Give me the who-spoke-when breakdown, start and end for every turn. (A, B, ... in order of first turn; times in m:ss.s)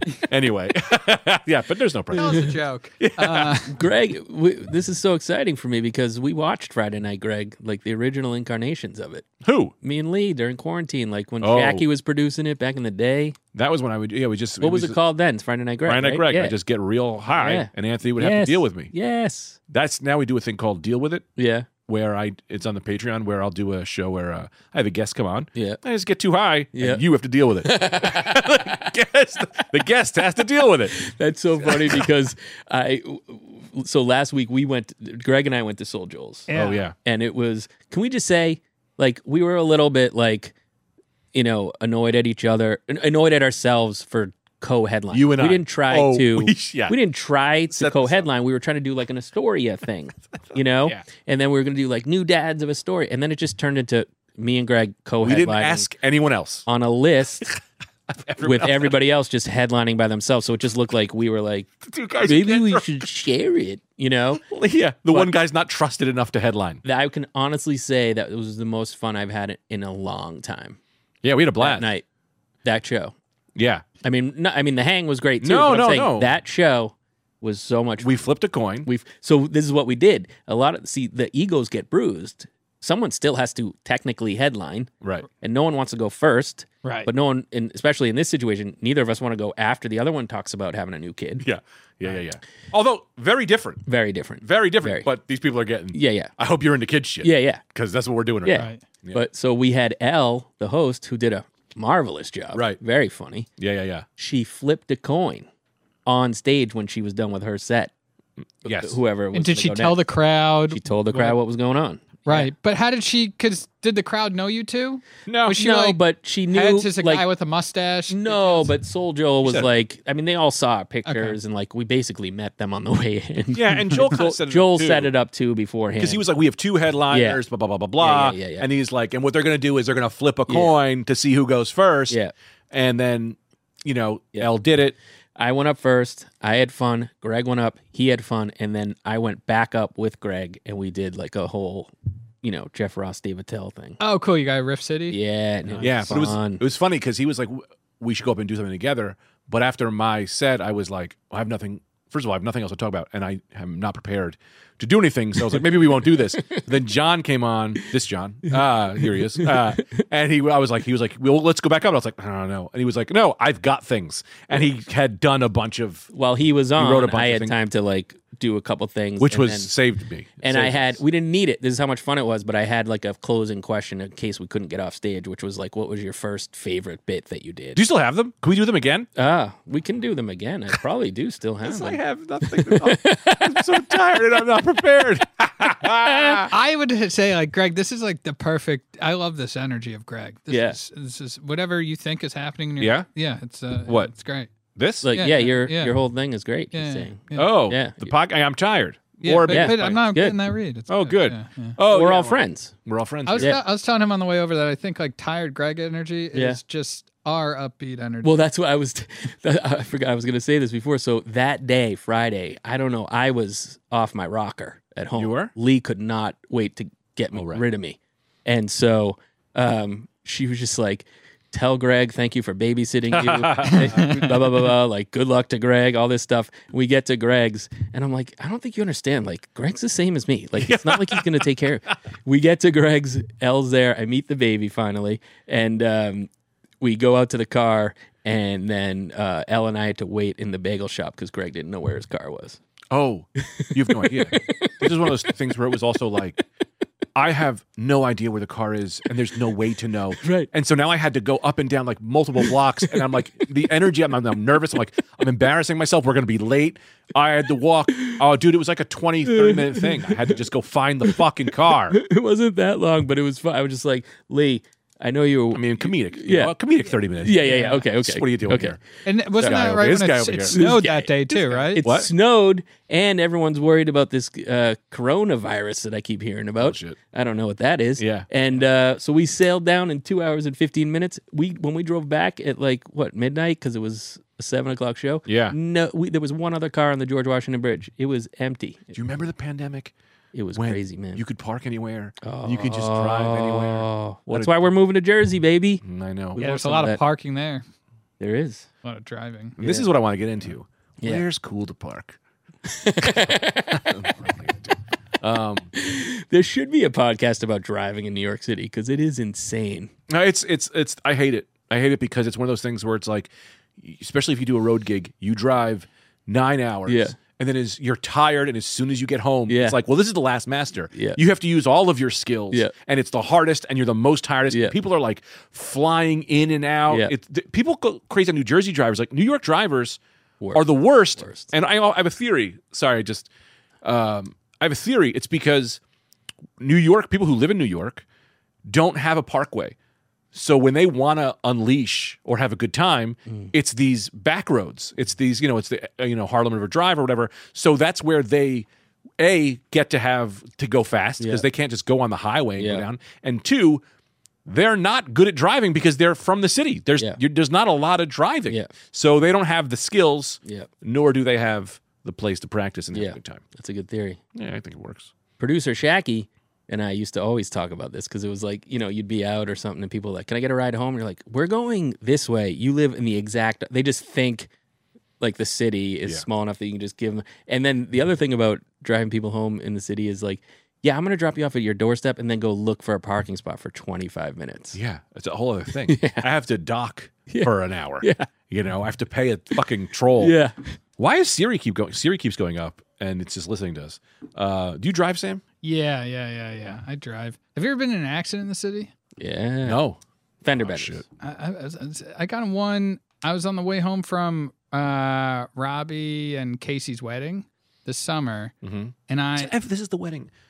0:00.2-0:03.6 A
0:02.1-0:03.8 B
0:02.2-0:02.5 C
0:03.7-0:09.3 C
0:09.4-0:09.7 A
0:09.8-0:13.4 C
0:11.4-0:11.8 A
0:13.5-0:15.0 A
0:14.6-0:16.6 C
0:15.8-0:18.9 A
0:17.3-0:19.6 C
0:19.7-0:21.3 A
0:21.4-0:21.7 C
0:21.9-0:31.0 A
0:25.6-0:25.8 C
0:26.7-0:27.0 C
0:27.6-0:28.6 C
0:30.9-0:36.5 C
0:31.6-0:32.1 A
0:36.5-0:36.8 B
0:36.5-0:37.0 A
0:37.0-0:40.5 C
0:41.3-0:55.9 C
0:45.1-0:47.0 A
0:47.7-0:48.2 A
0:55.2-0:56.7 A
0:56.7-0:57.5 C
0:58.1-0:59.0 A
0:58.4-1:01.7 C
1:01.8-1:02.9 A
1:02.2-1:04.4 C
1:04.4-1:06.8 A
1:06.8-1:10.8 C
1:11.2-1:11.9 A
1:11.6-1:12.0 C
1:12.6-1:13.2 C
1:13.6-1:13.8 A
1:14.0-1:18.3 C
1:15.4-1:16.3 A
1:18.0-1:18.9 A
1:18.8-1:31.4 C
1:25.0-1:25.3 A
1:26.8-1:27.1 B
1:31.4-1:33.8 A
1:33.9-1:35.1 C
1:34.4-1:39.2 A
1:35.9-1:36.3 C
1:37.2-1:37.6 C
1:38.4-1:43.5 C
1:38.5-1:38.8 B
1:42.5-1:42.8 A
1:43.6-1:44.0 A
1:44.2-1:45.5 C
1:46.0-1:47.9 C
1:48.6-1:49.0 A
1:48.6-1:50.0 C
1:49.3-1:51.3 B
1:50.7-1:52.5 C
1:52.3-1:58.7 B
1:55.3-1:55.6 A
1:55.5-1:57.2 C
1:58.1-2:06.3 C
1:59.4-1:59.7 A
2:01.1-2:01.4 B
2:03.5-2:05.1 A
2:06.0-2:12.2 A
2:07.1-2:07.4 C
2:08.0-2:08.7 C
2:10.5-2:10.7 C
2:12.7-2:15.0 A
2:15.4-2:24.0 C
2:24.0-2:25.2 B
2:25.1-2:26.6 C
2:25.8-2:46.1 A
2:39.1-2:39.8 C
2:46.1-2:49.7 C
2:46.8-2:47.6 A
2:49.2-2:51.0 A
2:50.4-2:57.8 C
2:57.8-2:59.1 A
2:59.2-3:03.8 C
3:01.6-3:06.5 A
3:06.5-3:14.5 B
3:10.5-3:10.8 C
3:12.8-3:13.1 A
3:13.9-3:14.1 A
3:14.8-3:15.1 A
3:15.0-3:18.1 C
3:15.1-3:16.0 B
3:16.7-3:17.5 B
3:17.4-3:20.0 A
3:19.2-3:21.8 B
3:19.5-3:20.4 C
3:20.9-3:23.6 A
3:21.8-3:22.7 C
3:23.3-3:28.4 B
3:23.4-3:23.6 C
3:26.3-3:26.6 C
3:28.2-4:02.6 C
3:35.2-3:35.5 A
3:37.4-3:37.6 A
3:43.1-3:44.2 A
3:43.7-3:44.4 B
3:50.6-3:51.9 A
4:02.9-4:06.4 A
4:03.5-4:05.2 C
4:07.2-4:22.0 A
4:10.2-4:10.5 C
4:18.0-4:18.2 C
4:19.3-4:20.4 C
4:21.7-4:26.5 C
4:25.5-4:28.8 A
4:27.2-4:28.8 C
4:27.5-4:27.8 B
4:29.1-4:31.8 B
4:29.4-4:29.8 C
4:29.4-4:30.6 A
4:30.5-4:49.0 C
4:31.8-4:32.1 A
4:36.6-4:37.0 A
4:38.0-4:38.3 A
4:45.3-4:45.6 A
4:48.9-4:49.9 A
4:50.3-4:51.2 C
4:50.6-4:54.6 A
4:52.2-4:55.8 C
4:55.8-4:56.4 A
4:56.4-4:57.0 C
4:56.4-4:57.6 B
4:58.2-4:58.7 C
4:58.8-4:59.6 B
4:59.6-5:02.2 A
4:59.6-4:59.9 C
5:02.6-5:04.1 C
5:03.0-5:05.7 A
5:05.8-5:09.9 C
5:10.1-5:30.0 A
5:16.9-5:17.2 C
5:19.5-5:19.8 C
5:20.9-5:21.2 C
5:24.5-5:24.8 C
5:30.4-5:31.5 C
5:30.5-5:33.3 A
5:33.8-5:35.8 A
5:36.6-5:38.0 A
5:38.7-5:39.8 A
5:40.3-5:48.7 A
5:49.2-5:53.8 A
5:51.2-5:51.5 C
5:52.6-5:52.9 C
5:54.5-6:03.4 A
6:00.4-6:00.7 C
6:02.9-6:04.2 C
6:04.3-6:05.1 A
6:05.4-6:14.5 C
6:15.2-6:24.8 C
6:24.7-6:30.4 A
6:25.9-6:26.3 C
6:27.3-6:28.3 C
6:30.2-6:30.7 C
6:31.0-6:35.4 A
6:35.6-6:38.9 B
6:39.2-6:39.8 C
6:39.6-6:40.0 A
6:40.4-6:41.0 C
6:40.6-6:41.0 A
6:41.2-6:48.5 B
6:48.6-6:50.3 A
6:49.1-6:49.5 B